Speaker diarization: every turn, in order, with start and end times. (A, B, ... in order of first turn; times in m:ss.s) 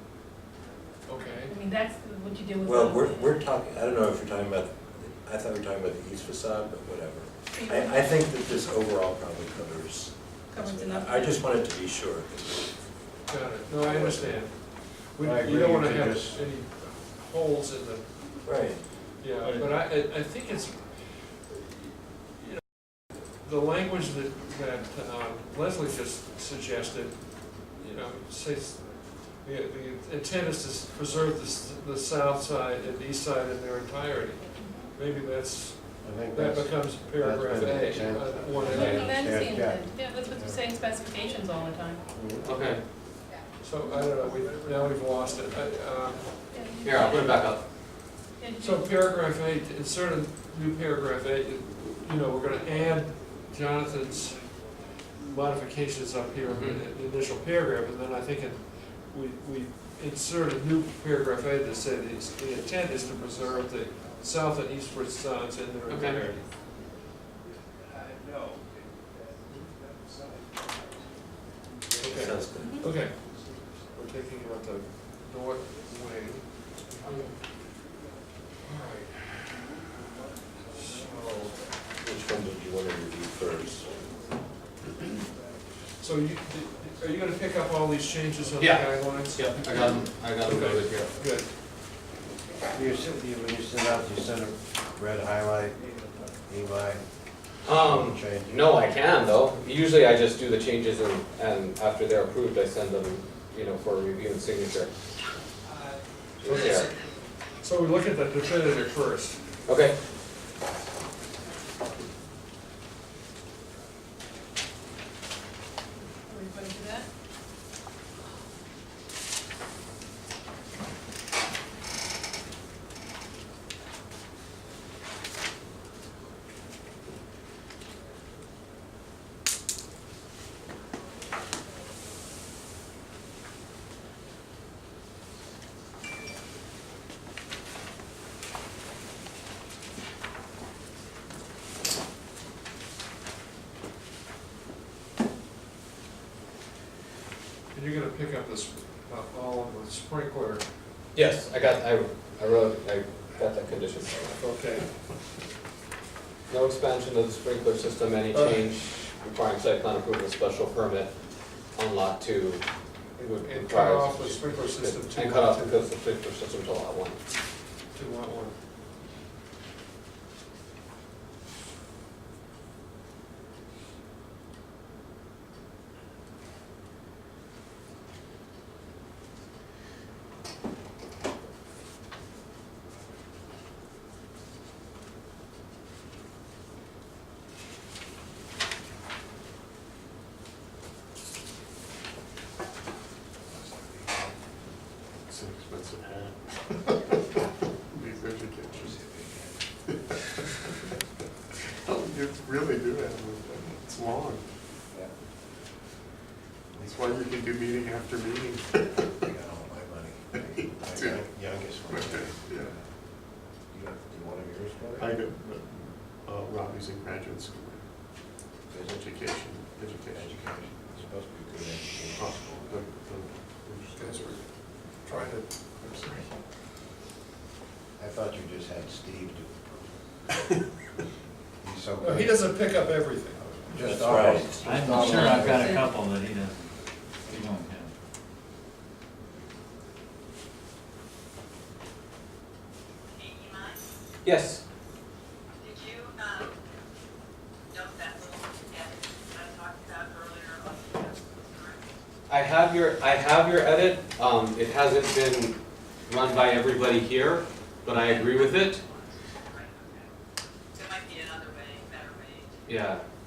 0:01.0-0:01.5 A
0:01.5-0:03.3 B
0:02.6-0:12.8 C
0:07.5-0:08.1 B
0:10.5-0:11.4 B
0:13.2-0:18.0 A
0:13.8-0:14.4 C
0:15.2-0:16.4 D
0:18.4-0:18.8 C
0:19.2-0:22.6 A
0:19.4-0:19.7 E
0:23.4-0:39.4 A
0:34.6-0:34.9 B
0:36.0-0:40.6 D
0:38.6-0:42.0 B
0:42.1-0:42.4 D
0:42.4-0:42.8 A
0:42.4-0:42.8 F
0:43.6-0:46.4 A
0:43.8-0:44.1 B
0:46.5-0:47.4 B
0:46.8-0:47.6 F
0:48.4-0:49.0 B
0:48.6-0:54.6 A
0:55.2-1:06.4 A
0:56.5-0:56.8 F
1:05.9-1:06.2 F
1:11.9-1:13.2 A
1:12.0-1:12.7 C
1:13.9-1:17.3 A
1:17.0-1:17.3 F
1:18.6-1:19.7 A
1:20.7-1:21.6 A
1:22.0-1:24.0 C
1:26.0-1:31.5 A
1:28.6-1:31.1 F
1:32.7-1:35.8 D
1:36.4-1:37.0 D
1:37.6-1:38.6 D
1:37.6-1:44.9 F
1:46.4-1:46.9 F
1:46.4-1:49.4 A
1:49.6-1:50.0 F
1:56.2-1:57.1 B
2:27.7-2:30.6 A
2:31.1-2:34.4 F
2:34.3-2:34.9 A
2:36.5-2:41.1 F
2:41.7-2:42.6 F
2:43.2-2:47.2 F
2:43.4-2:45.8 A
2:47.9-2:48.5 A
3:13.5-3:14.1 D
3:15.3-3:17.2 G
3:17.9-3:19.0 G
3:18.7-3:19.6 D
3:20.2-3:20.9 G
3:21.8-3:24.4 G
3:26.8-3:29.0 G
3:29.2-3:32.8 D
3:30.3-3:31.2 G
3:31.8-3:32.7 G
3:33.7-3:35.2 D
3:35.0-3:37.8 G
3:38.7-3:39.0 D
3:38.8-3:40.4 G
3:40.1-3:42.8 D
3:42.1-3:44.4 G
3:43.9-3:44.4 A
3:45.0-3:46.3 G
3:45.0-3:45.4 A
3:48.0-3:49.7 D
3:51.6-3:55.8 D
3:52.0-3:53.5 A
3:53.8-3:54.8 C
3:54.6-3:56.5 E
3:55.0-3:55.9 B
3:57.3-3:57.9 E
4:03.1-4:03.8 H
4:04.2-4:04.6 F
4:05.6-4:06.5 H
4:07.7-4:11.9 H
4:12.3-4:15.6 F
4:16.1-4:18.8 F
4:18.0-4:20.1 H
4:20.7-4:22.6 H
4:22.7-4:23.0 F